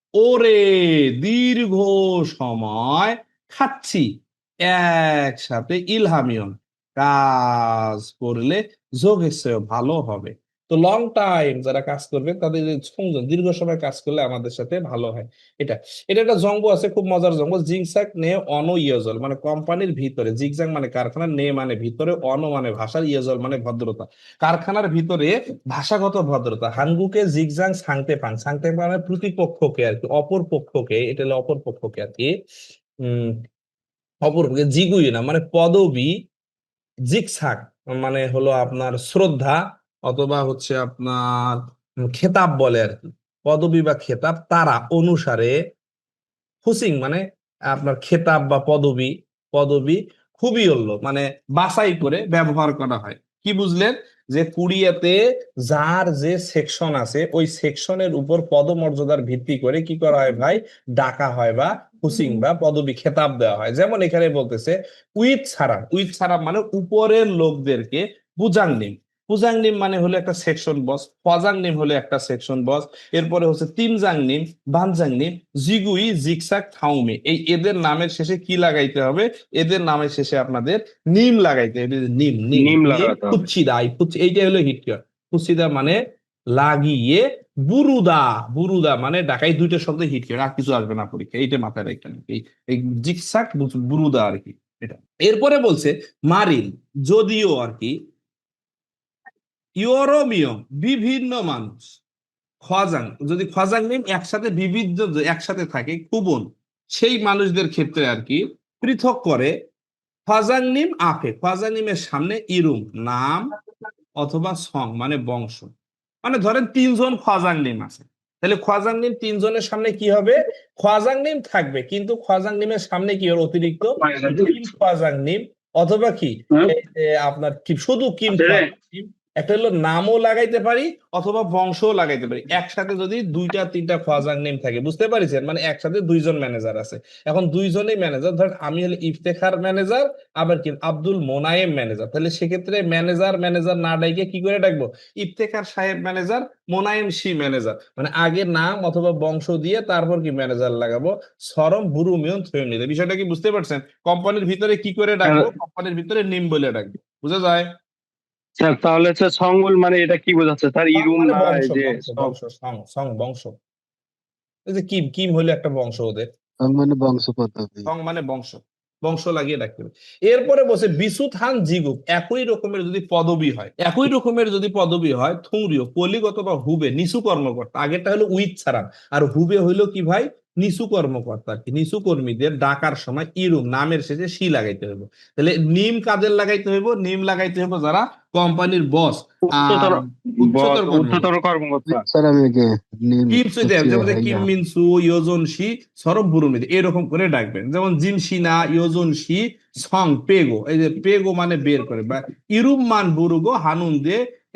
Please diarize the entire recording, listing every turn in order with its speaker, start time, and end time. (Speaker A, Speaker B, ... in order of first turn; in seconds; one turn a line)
Speaker A: 0.2-4.0
Speaker A: 4.7-32.3
Speaker A: 33.0-33.3
Speaker A: 34.2-36.1
Speaker A: 37.1-41.6
Speaker A: 42.1-45.5
Speaker A: 46.6-86.0
Speaker B: 82.5-83.5
Speaker A: 86.6-97.9
Speaker A: 99.8-102.0
Speaker A: 102.6-109.5
Speaker A: 110.3-113.5
Speaker A: 114.2-115.7
Speaker A: 116.2-157.7
Speaker B: 124.0-124.6
Speaker B: 128.3-128.7
Speaker B: 158.6-162.3
Speaker A: 160.9-163.5
Speaker A: 164.7-166.2
Speaker C: 166.6-167.9
Speaker A: 167.8-191.2
Speaker B: 189.5-192.0
Speaker C: 191.9-194.5
Speaker A: 193.3-204.2